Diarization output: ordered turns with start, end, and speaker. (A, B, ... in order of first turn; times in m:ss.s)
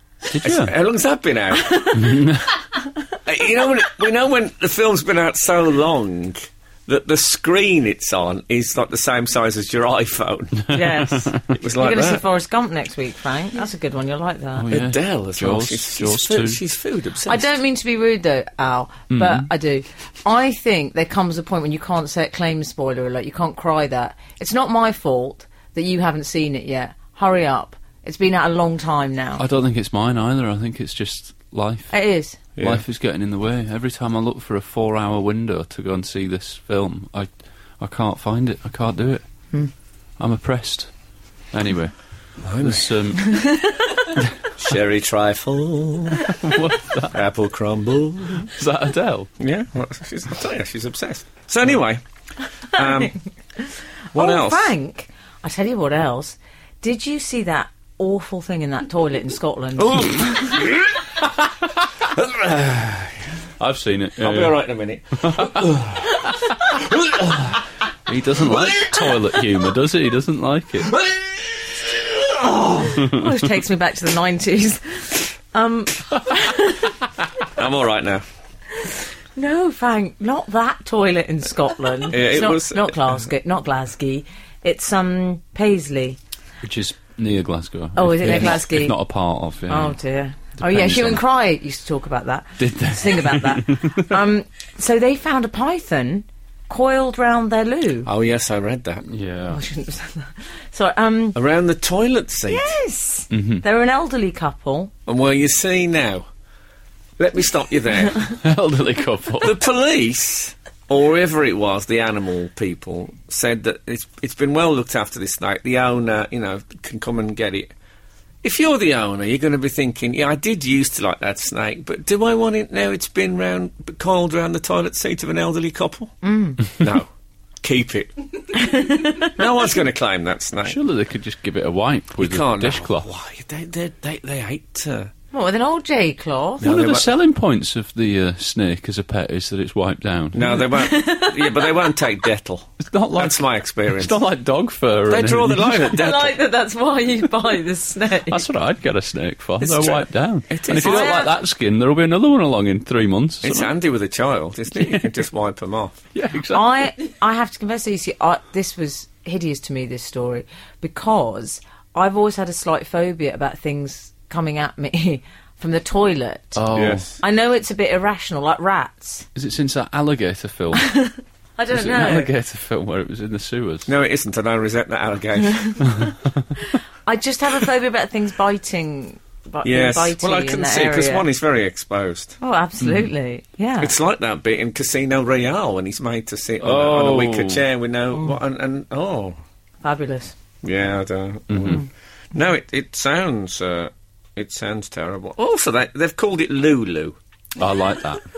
0:00.3-0:00.7 A
0:00.4-0:02.0 B
0:01.9-0:02.5 A
0:03.2-0:10.7 B
0:10.7-0:14.6 C
0:10.8-0:11.4 A
0:11.5-0:12.2 B
0:14.6-0:16.6 A
0:14.7-0:17.5 B
0:17.2-0:29.4 C
0:19.1-0:19.5 A
0:29.4-0:32.0 A
0:31.9-0:32.4 C
0:32.6-0:32.8 B
0:32.6-0:39.4 A
0:40.2-0:40.9 A
0:41.5-0:43.5 A
0:42.4-0:42.9 B
0:43.2-0:43.7 C
0:44.6-0:46.3 B
0:46.3-0:47.2 A
0:47.1-0:48.5 B
0:48.4-0:49.3 A
0:49.4-0:52.0 B
0:52.7-0:53.1 B
0:52.8-0:53.1 C
0:53.6-1:00.5 C
0:54.1-0:54.7 B
0:59.8-1:01.0 B
1:02.0-1:03.3 B
1:03.6-1:04.6 A
1:04.2-1:06.2 B
1:05.1-1:06.5 A
1:06.8-1:07.2 B
1:08.1-1:11.0 A
1:08.5-1:09.0 B
1:11.9-1:12.9 B
1:12.9-1:16.9 C
1:13.0-1:13.3 A
1:17.5-1:18.2 B
1:18.8-1:26.2 C
1:22.1-1:23.2 B
1:26.6-1:30.0 A
1:27.9-1:29.0 C
1:29.7-1:38.1 C
1:30.6-1:31.2 A
1:32.6-1:34.1 A
1:38.0-1:39.0 B
1:39.1-1:39.6 A
1:39.5-1:41.4 C
1:41.3-1:42.7 B
1:42.5-1:44.9 C
1:43.3-1:43.6 A
1:45.0-1:46.3 B
1:47.2-1:48.3 B
1:48.4-1:49.6 A
1:49.4-1:57.7 B
1:58.4-2:06.1 B
2:06.2-2:06.7 C
2:06.6-2:07.1 B
2:07.6-2:08.5 B
2:08.6-2:09.3 C
2:09.3-2:10.8 B
2:10.6-2:13.1 A
2:12.2-2:15.1 B
2:15.3-2:16.7 C
2:16.6-2:17.1 B
2:16.6-2:20.6 A
2:20.3-2:24.2 B
2:20.7-2:21.9 C
2:22.8-2:25.8 A
2:25.1-2:26.4 B
2:25.8-2:28.4 C
2:28.3-2:33.7 A
2:29.6-2:31.2 B
2:30.7-2:31.3 C
2:33.4-2:36.0 B
2:34.8-2:35.1 A
2:36.1-2:36.7 A
2:36.5-2:46.6 C
2:46.6-2:47.1 A
2:46.7-2:47.1 B
2:47.2-2:49.3 C
2:49.3-2:50.9 A
2:50.8-2:52.3 C
2:51.7-2:53.9 A
2:53.8-2:55.8 B
2:57.0-3:01.2 C
2:59.6-3:02.4 B
3:02.4-3:03.9 C
3:03.8-3:09.3 B
3:06.6-3:07.6 A
3:09.8-3:10.3 C
3:10.6-3:17.2 B
3:11.5-3:11.8 A
3:17.6-3:18.2 A